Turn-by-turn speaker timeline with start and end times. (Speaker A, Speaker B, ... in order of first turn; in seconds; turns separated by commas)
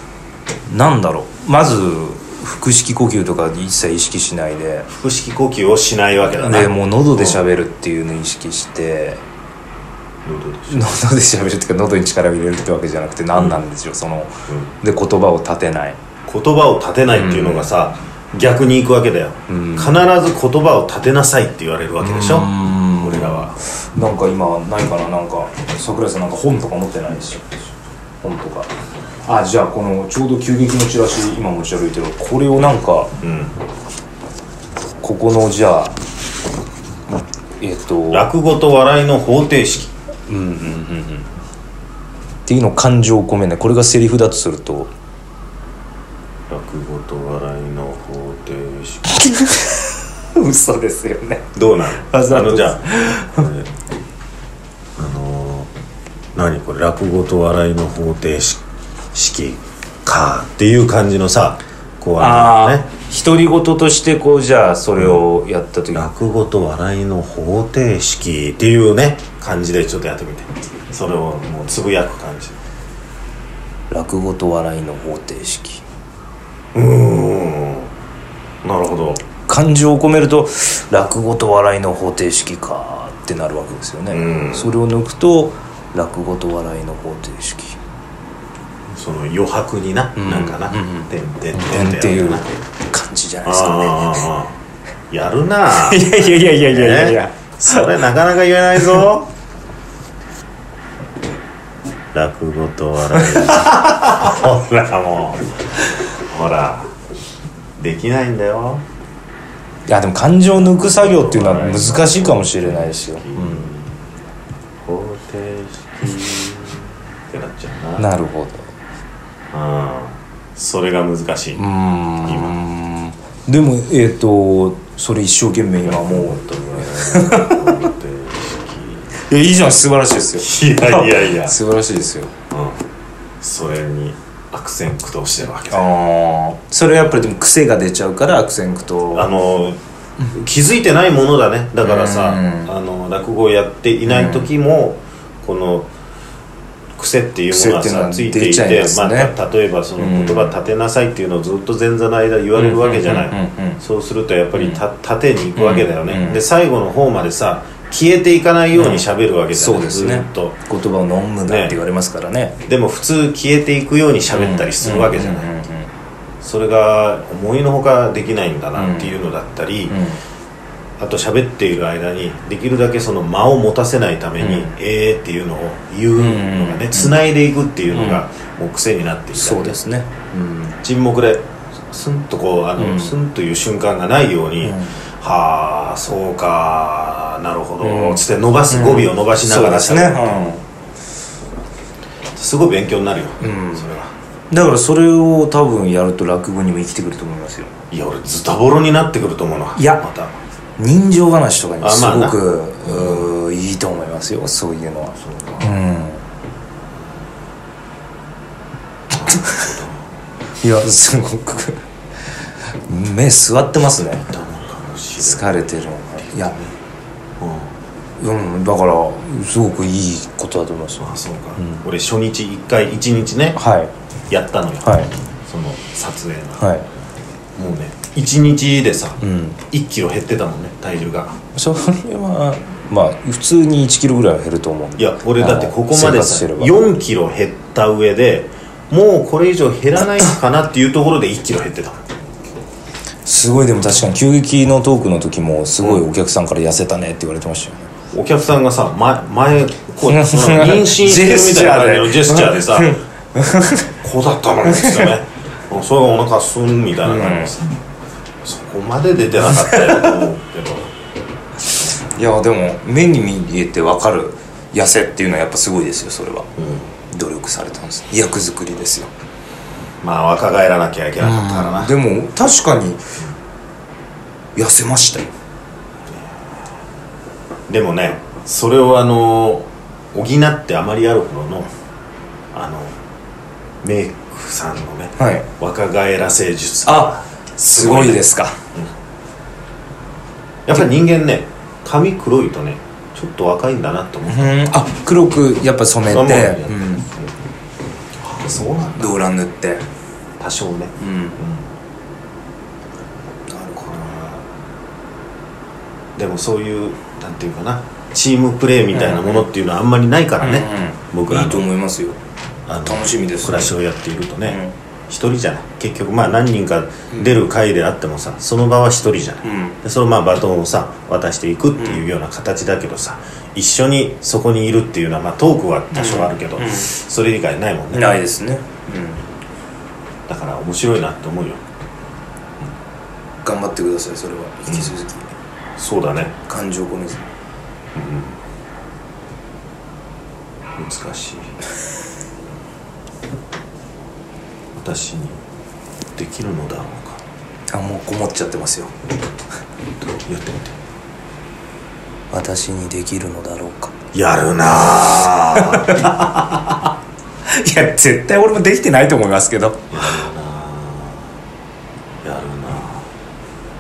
Speaker A: 0.7-4.9, Speaker B: 4.9-7.4, Speaker A: 6.4-9.2, Speaker B: 10.2-10.9, Speaker A: 10.7-16.0, Speaker B: 13.3-13.6, Speaker B: 16.2-23.6, Speaker A: 17.1-17.7, Speaker A: 19.5-20.0, Speaker A: 22.0-28.7, Speaker A: 29.2-33.1, Speaker B: 33.2-33.5, Speaker A: 35.0-36.0, Speaker A: 37.6-38.3, Speaker B: 38.1-39.9, Speaker A: 40.3-41.3, Speaker A: 42.5-44.9, Speaker B: 46.5-49.2, Speaker A: 49.1-51.5, Speaker B: 51.5-53.7, Speaker A: 52.1-53.5, Speaker B: 55.0-55.7, Speaker B: 56.4-62.9, Speaker A: 62.2-66.1, Speaker B: 65.9-72.6, Speaker A: 73.9-75.8, Speaker B: 76.8-77.9, Speaker B: 78.6-79.2, Speaker A: 79.5-87.8, Speaker B: 84.1-84.8, Speaker B: 88.9-92.5, Speaker A: 90.2-94.2, Speaker B: 93.5-94.6, Speaker B: 95.1-99.3, Speaker A: 95.7-97.9, Speaker A: 98.8-99.0, Speaker B: 102.1-105.5, Speaker A: 103.2-103.7, Speaker B: 106.1-106.9, Speaker B: 107.8-108.8, Speaker A: 109.9-113.7, Speaker B: 110.6-114.0, Speaker B: 114.8-118.1, Speaker A: 118.0-118.7, Speaker B: 119.5-121.6, Speaker A: 121.6-127.7, Speaker B: 122.2-122.6, Speaker B: 125.8-129.2, Speaker A: 129.2-132.3, Speaker B: 130.4-131.6, Speaker B: 132.5-132.8, Speaker B: 133.4-135.9, Speaker A: 135.7-139.3, Speaker B: 139.1-139.8, Speaker B: 140.3-145.9, Speaker A: 141.8-142.7, Speaker A: 144.1-144.5, Speaker B: 147.0-160.6, Speaker A: 147.5-149.3, Speaker A: 150.0-150.5, Speaker A: 152.6-153.8, Speaker A: 154.5-154.8, Speaker A: 155.6-156.4, Speaker A: 158.7-162.6, Speaker B: 161.4-161.8, Speaker B: 162.7-165.5, Speaker A: 164.3-165.9, Speaker B: 166.4-170.0, Speaker A: 168.8-169.2, Speaker A: 169.9-170.2, Speaker B: 171.0-179.8, Speaker A: 174.4-174.7, Speaker A: 176.2-177.2, Speaker A: 177.9-178.2, Speaker A: 179.3-180.8, Speaker B: 180.8-190.4, Speaker A: 182.8-183.2, Speaker A: 184.6-185.0, Speaker A: 187.8-190.6, Speaker B: 192.3-194.1, Speaker A: 193.4-194.0, Speaker A: 194.5-197.7, Speaker B: 197.9-200.4, Speaker A: 199.8-200.0, Speaker A: 200.8-206.2, Speaker B: 201.8-203.3, Speaker B: 205.2-205.8, Speaker B: 209.1-209.9, Speaker A: 209.3-209.7, Speaker A: 210.6-211.8, Speaker A: 212.8-214.3, Speaker B: 214.1-216.8, Speaker A: 215.2-216.6, Speaker B: 217.4-217.7, Speaker A: 218.2-221.8, Speaker B: 221.0-223.6, Speaker A: 223.6-223.9, Speaker B: 224.3-226.7, Speaker A: 224.8-225.1, Speaker A: 226.6-226.9, Speaker B: 227.6-231.4, Speaker A: 229.2-229.6, Speaker A: 231.6-236.8, Speaker B: 235.0-242.0, Speaker A: 243.2-247.9, Speaker B: 245.8-246.1, Speaker B: 248.1-253.0, Speaker A: 250.1-253.9, Speaker B: 254.0-257.7, Speaker A: 254.7-255.1, Speaker A: 257.1-257.5, Speaker B: 258.4-260.9, Speaker A: 259.5-260.2, Speaker B: 261.8-262.1, Speaker A: 262.1-266.5, Speaker B: 266.6-266.9, Speaker A: 267.1-269.1, Speaker B: 270.0-271.9, Speaker A: 271.2-273.0, Speaker A: 274.6-275.3, Speaker B: 276.1-276.5, Speaker B: 277.7-281.7, Speaker B: 282.5-283.0, Speaker B: 283.8-288.9, Speaker A: 285.2-285.5, Speaker A: 286.9-288.6, Speaker B: 290.7-294.7, Speaker A: 294.3-297.1, Speaker B: 296.1-297.3, Speaker B: 298.2-299.2, Speaker A: 298.9-299.8, Speaker B: 300.4-301.7, Speaker A: 301.0-301.4, Speaker A: 303.5-303.9, Speaker B: 303.8-304.5, Speaker B: 306.2-311.7, Speaker A: 308.9-309.4, Speaker A: 310.4-312.2, Speaker B: 312.7-328.2, Speaker A: 312.8-313.7, Speaker A: 314.5-314.7, Speaker A: 319.4-319.8, Speaker A: 321.8-322.0, Speaker A: 325.9-326.9, Speaker A: 327.9-329.2, Speaker B: 330.3-331.6, Speaker A: 333.4-335.3, Speaker B: 334.7-334.9, Speaker B: 335.8-336.3, Speaker A: 336.5-337.3, Speaker B: 337.9-338.4, Speaker B: 340.8-341.5, Speaker B: 344.7-345.4, Speaker B: 346.2-347.2, Speaker A: 347.7-348.9, Speaker B: 350.0-350.8, Speaker A: 352.3-353.9, Speaker B: 354.1-356.2, Speaker A: 355.5-356.7, Speaker A: 357.5-360.2, Speaker B: 359.9-361.3, Speaker B: 362.2-363.1